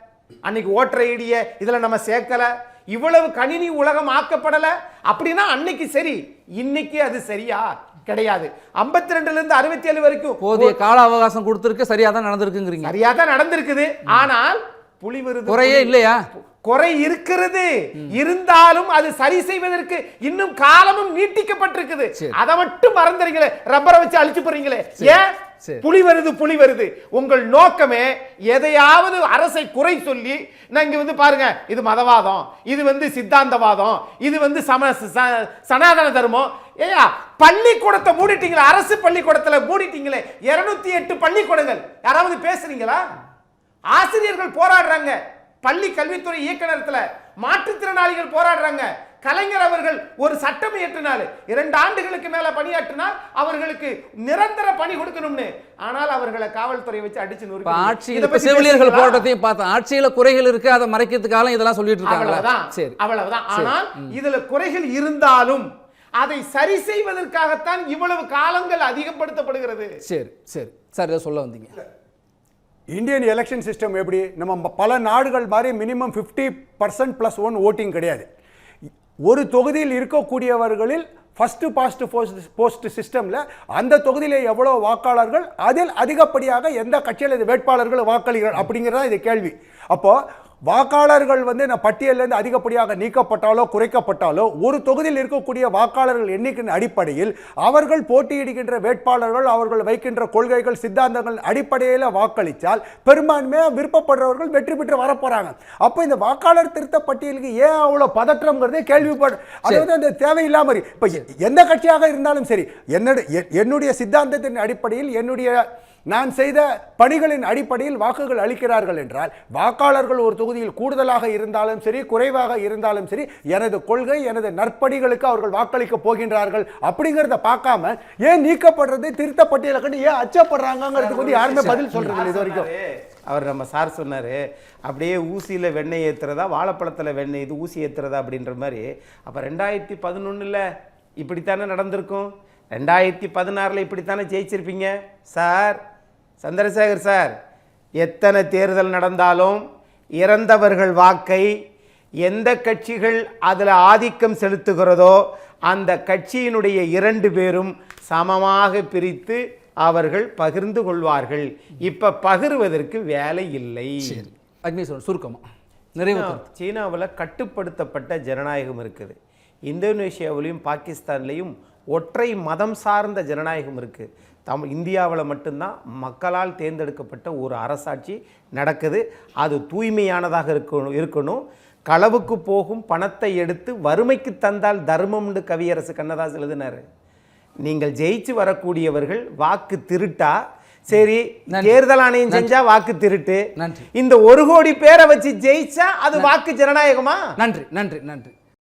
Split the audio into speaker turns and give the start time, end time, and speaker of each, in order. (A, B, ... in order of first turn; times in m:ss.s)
0:00.4-0:10.8 A
0:10.4-0:12.9 B
0:12.8-0:25.3 A
0:15.5-0:16.2 B
0:25.0-0:25.8 B
0:25.8-0:43.0 A
0:43.9-0:59.2 A
0:57.7-1:03.0 B
1:02.0-1:05.7 A
1:03.5-1:04.1 B
1:06.2-1:09.9 A
1:10.0-1:11.8 B
1:12.9-1:18.3 C
1:19.2-1:30.2 C
1:30.7-2:12.7 C
2:11.0-2:20.6 A
2:21.2-2:25.8 A
2:26.4-2:27.3 A
2:28.0-2:29.6 A
2:30.2-2:31.5 A
2:32.2-2:44.2 A
2:44.0-2:45.4 B
2:46.0-2:46.4 B
2:46.0-3:06.8 A
3:07.6-3:10.4 A
3:10.9-3:13.4 A
3:11.5-3:12.5 B
3:13.6-3:13.9 B
3:14.0-3:17.2 A
3:17.4-3:18.3 B